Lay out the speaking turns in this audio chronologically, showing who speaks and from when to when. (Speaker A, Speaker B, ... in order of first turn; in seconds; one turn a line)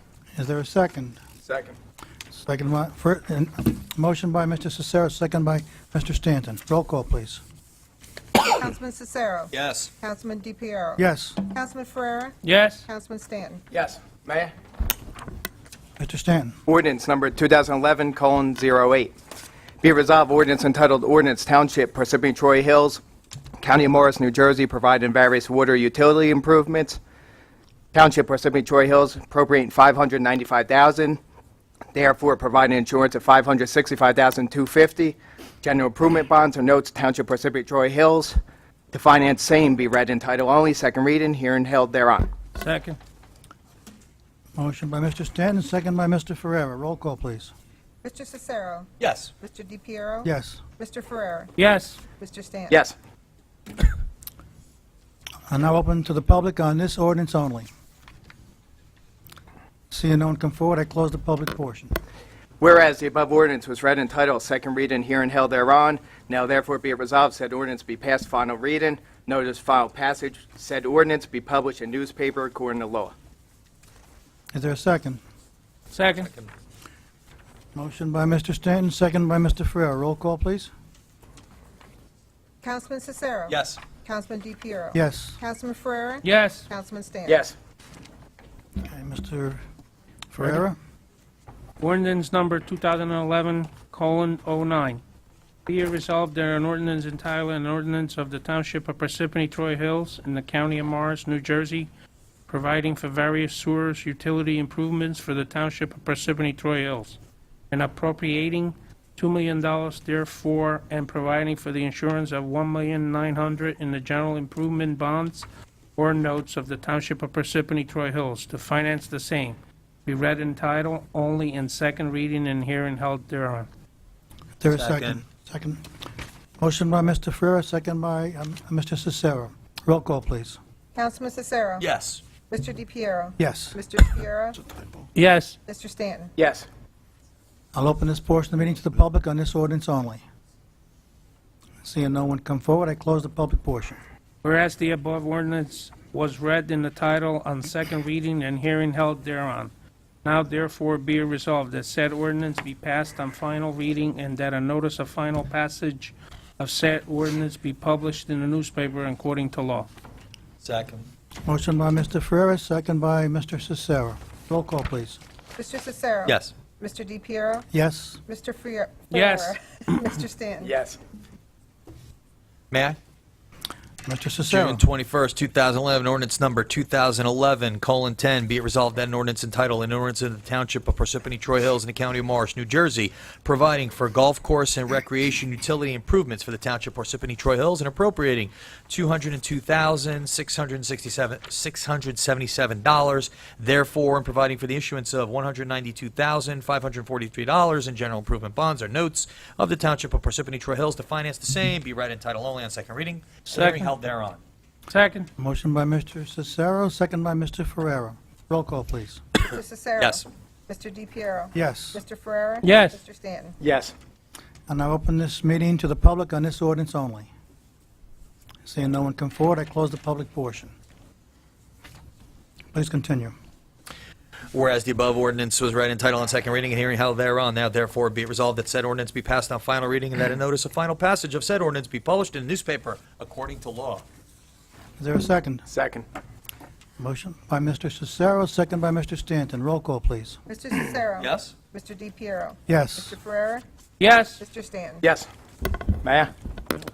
Speaker A: 0.4-1.2
Speaker B: 1.4-1.8
Speaker A: 2.3-7.4
Speaker C: 8.5-13.6
Speaker D: 9.5-9.9
Speaker A: 11.0-11.4
Speaker E: 12.4-12.8
Speaker B: 13.7-14.5
Speaker A: 16.0-16.6
Speaker B: 16.7-19.1
Speaker B: 19.8-23.0
Speaker B: 23.6-27.0
Speaker B: 27.9-31.2
Speaker B: 31.9-38.4
Speaker B: 38.9-42.3
Speaker E: 42.6-43.0
Speaker A: 44.6-47.5
Speaker C: 48.0-48.9
Speaker D: 49.0-49.3
Speaker C: 49.4-51.6
Speaker A: 50.2-50.6
Speaker E: 51.6-52.0
Speaker C: 52.2-52.8
Speaker B: 52.7-53.0
Speaker A: 55.5-57.7
Speaker A: 59.9-61.9
Speaker B: 62.6-73.1
Speaker A: 74.5-75.2
Speaker E: 75.9-76.3
Speaker D: 76.2-76.5
Speaker A: 77.8-80.7
Speaker C: 82.6-87.4
Speaker D: 83.5-83.8
Speaker A: 84.9-85.4
Speaker E: 86.2-86.7
Speaker B: 87.3-87.5
Speaker A: 88.8-89.6
Speaker A: 90.3-90.8
Speaker E: 91.8-95.0
Speaker E: 95.7-101.9
Speaker E: 102.5-107.2
Speaker E: 107.7-123.7
Speaker A: 124.6-125.8
Speaker D: 124.7-125.2
Speaker A: 126.6-130.6
Speaker C: 130.9-131.8
Speaker D: 131.8-132.2
Speaker C: 132.5-134.6
Speaker A: 133.4-133.8
Speaker E: 135.2-135.6
Speaker C: 135.7-136.3
Speaker B: 136.4-136.7
Speaker A: 137.7-140.2
Speaker A: 141.8-144.0
Speaker E: 144.4-149.7
Speaker E: 150.2-159.9
Speaker D: 160.6-161.1
Speaker A: 161.4-165.2
Speaker C: 165.6-167.7
Speaker D: 166.3-166.5
Speaker A: 167.7-168.2
Speaker C: 168.3-170.7
Speaker E: 169.1-169.6
Speaker B: 170.6-171.0
Speaker D: 172.7-173.0
Speaker A: 174.1-174.8
Speaker D: 174.5-204.4
Speaker E: 203.5-203.9
Speaker E: 204.9-205.3
Speaker A: 205.4-209.2
Speaker C: 209.4-213.6
Speaker D: 210.0-210.2
Speaker A: 211.6-212.0
Speaker E: 212.6-213.0
Speaker B: 213.6-213.9
Speaker A: 214.7-217.3
Speaker A: 218.7-220.7
Speaker A: 222.7-223.3
Speaker D: 224.5-234.0
Speaker A: 235.0-235.7
Speaker B: 235.7-236.1
Speaker A: 237.0-240.4
Speaker C: 240.5-243.6
Speaker D: 241.2-241.5
Speaker A: 242.7-243.2
Speaker E: 244.0-244.4
Speaker C: 244.4-245.1
Speaker B: 245.0-246.3